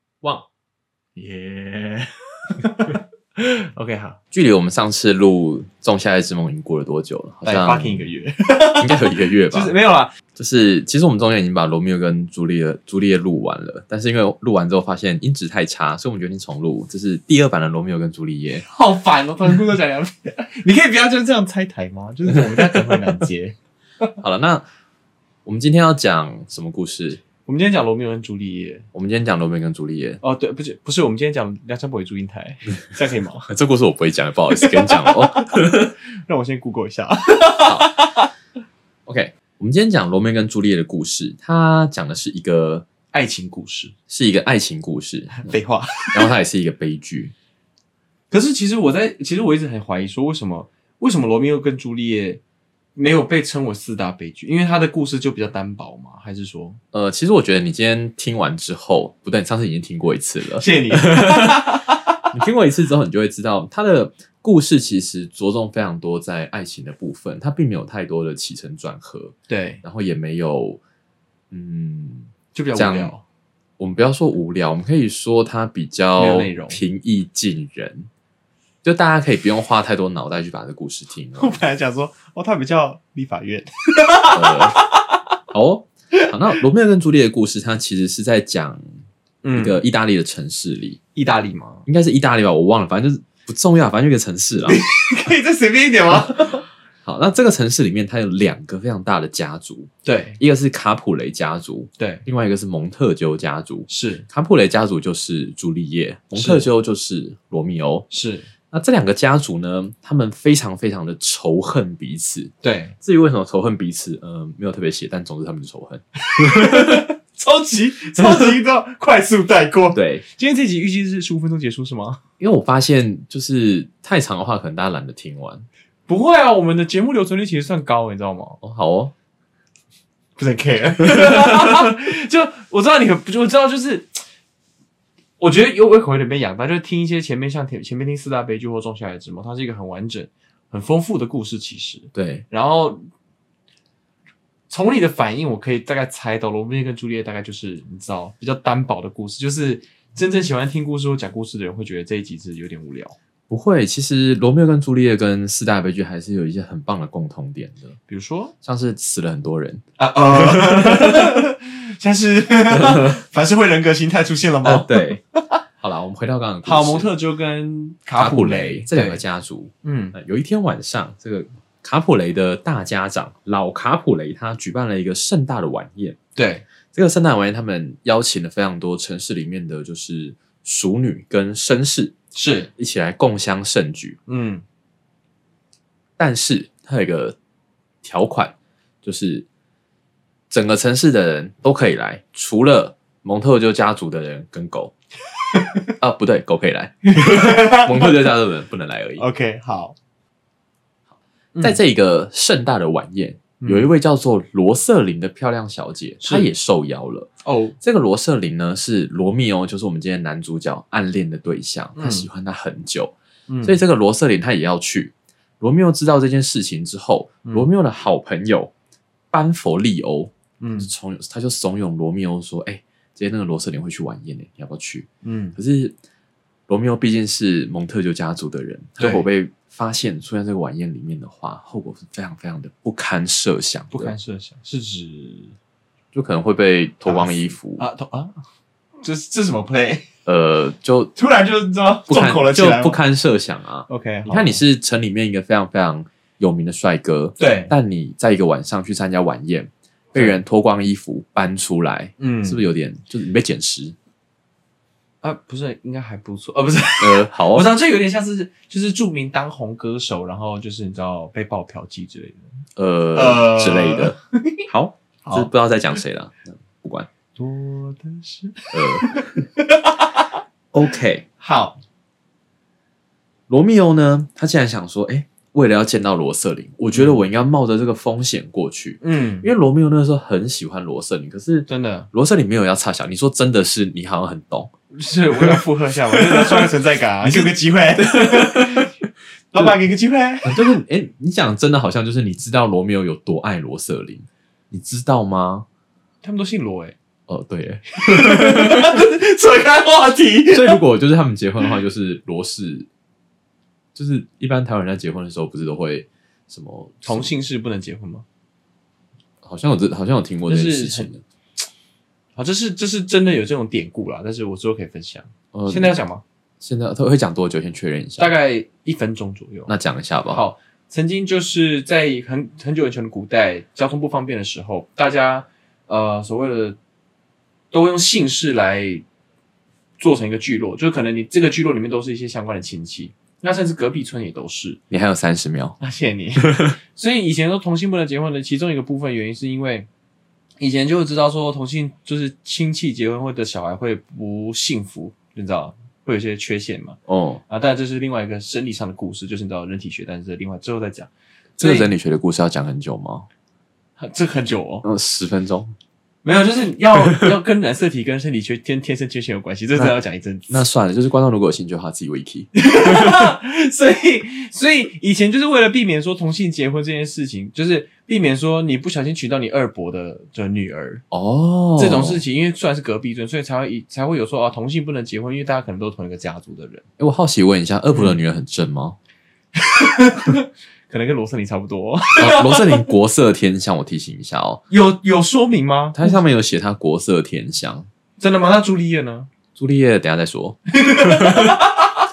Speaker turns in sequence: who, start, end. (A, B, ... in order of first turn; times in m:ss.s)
0:01.2-0:04.2 A
0:04.3-0:08.1 B
0:07.4-0:10.1 A
0:08.7-0:09.7 B
0:10.4-0:18.7 B
0:18.6-0:23.6 A
0:22.3-0:22.9 B
0:24.2-0:24.6 B
0:25.5-0:27.2 B
0:27.5-0:28.9 A
0:28.9-0:30.2 B
0:30.2-0:33.5 A
0:33.5-0:35.9 B
0:34.6-0:38.3 A
0:37.6-0:38.0 B
0:39.1-0:42.9 B
0:43.1-0:43.9 A
0:44.1-0:45.6 B
0:45.3-0:46.3 A
0:46.1-0:47.3 B
0:48.3-0:52.4 A
0:53.0-0:56.8 A
0:56.9-1:01.8 B
1:00.6-1:02.1 A
1:02.3-1:10.8 B
1:09.5-1:09.8 A
1:11.5-1:13.1 B
1:12.5-1:13.2 A
1:13.8-1:18.1 B
1:16.2-1:16.8 A
1:18.8-1:21.6 B
1:21.4-1:25.2 A
1:24.3-1:24.8 B
1:25.5-1:29.0 B
1:29.4-1:29.8 A
1:29.5-1:31.0 B
1:31.2-1:31.9 A
1:31.9-1:34.9 B
1:34.7-1:36.6 A
1:37.0-1:48.1 B
1:40.0-1:40.4 A
1:42.0-1:42.3 A
1:43.9-1:44.3 A
1:46.3-1:46.7 A
1:48.1-1:48.5 A
1:48.7-1:57.1 B
1:52.6-1:53.0 A
1:56.3-2:02.2 A
1:59.9-2:00.2 B
2:02.4-2:05.7 B
2:06.1-2:08.6 A
2:08.6-2:09.1 B
2:10.4-2:14.2 A
2:15.4-2:23.1 A
2:22.1-2:22.4 B
2:24.7-2:33.2 A
2:33.5-2:38.0 B
2:38.1-2:38.5 A
2:38.6-2:39.8 B
2:40.0-2:45.4 A
2:40.6-2:41.4 B
2:42.7-2:43.2 B
2:44.6-2:45.2 B
2:45.8-2:47.1 B
2:46.6-2:49.2 A
2:48.2-2:56.2 B
2:49.8-2:50.2 A
2:56.4-2:56.6 A
2:56.9-3:02.2 B
3:02.3-3:02.7 A
3:02.8-3:04.2 B
3:04.3-3:04.6 A
3:06.2-3:07.4 B
3:08.0-3:09.5 B
3:10.5-3:14.9 B
3:15.5-3:15.8 A
3:16.0-3:19.3 B
3:17.1-3:18.3 A
3:19.2-3:20.0 A
3:21.5-3:21.8 A
3:21.6-3:38.7 B
3:23.6-3:23.9 A
3:26.2-3:26.5 A
3:27.4-3:27.8 A
3:32.0-3:32.3 A
3:33.5-3:33.8 A
3:39.3-3:46.0 B
3:40.6-3:40.9 A
3:45.2-3:45.6 A
3:46.7-3:54.1 B
3:49.0-3:49.3 A
3:53.9-3:55.6 A
3:56.1-3:57.9 B
3:57.0-3:58.3 A
3:59.0-4:00.1 A
4:00.3-4:01.1 B
4:01.2-4:03.0 A
4:02.1-4:14.0 B
4:03.9-4:04.6 A
4:07.4-4:07.7 A
4:10.1-4:10.4 A
4:12.2-4:12.7 A
4:15.2-4:22.5 A
4:17.0-4:17.7 B
4:22.8-4:24.2 B
4:23.2-4:24.6 A
4:24.7-4:27.1 B
4:25.2-4:25.5 A
4:27.4-4:30.4 A
4:28.7-4:29.4 B
4:30.7-4:31.3 B
4:31.4-4:31.8 A
4:33.5-4:44.7 B
4:36.9-4:37.2 A
4:39.0-4:39.5 A
4:41.7-4:42.1 A
4:44.9-4:48.9 A
4:45.4-4:46.7 B
4:47.2-4:48.9 B
4:49.5-4:50.6 A
4:50.4-4:55.7 B
4:56.2-4:57.0 A
4:57.3-4:59.0 B
4:58.0-5:00.8 A
5:00.5-5:02.9 B
5:04.0-5:07.3 B
5:07.0-5:08.2 A
5:09.4-5:11.2 B
5:10.5-5:11.1 A
5:12.4-5:16.2 A
5:15.5-5:16.0 B
5:16.6-5:18.3 B
5:18.2-5:19.7 A
5:19.7-5:20.4 B
5:20.3-5:26.8 A
5:27.7-5:29.0 A
5:30.0-5:34.8 A
5:34.9-5:35.8 B
5:35.8-5:39.9 A
5:36.4-5:36.8 B
5:40.6-5:47.0 A
5:47.1-5:47.4 B
5:47.5-5:51.9 A
5:51.6-5:53.3 B
5:54.0-5:54.8 A
5:54.8-5:55.7 B
5:56.2-6:00.6 A
6:00.5-6:03.3 B
6:02.6-6:11.0 A
6:11.1-6:12.2 B
6:11.8-6:16.8 A
6:17.0-6:19.0 B
6:19.6-6:22.8 A
6:22.2-6:24.6 B
6:24.7-6:26.2 A
6:26.0-6:27.9 B
6:28.2-6:29.3 A
6:29.6-6:31.7 B
6:30.7-6:31.9 A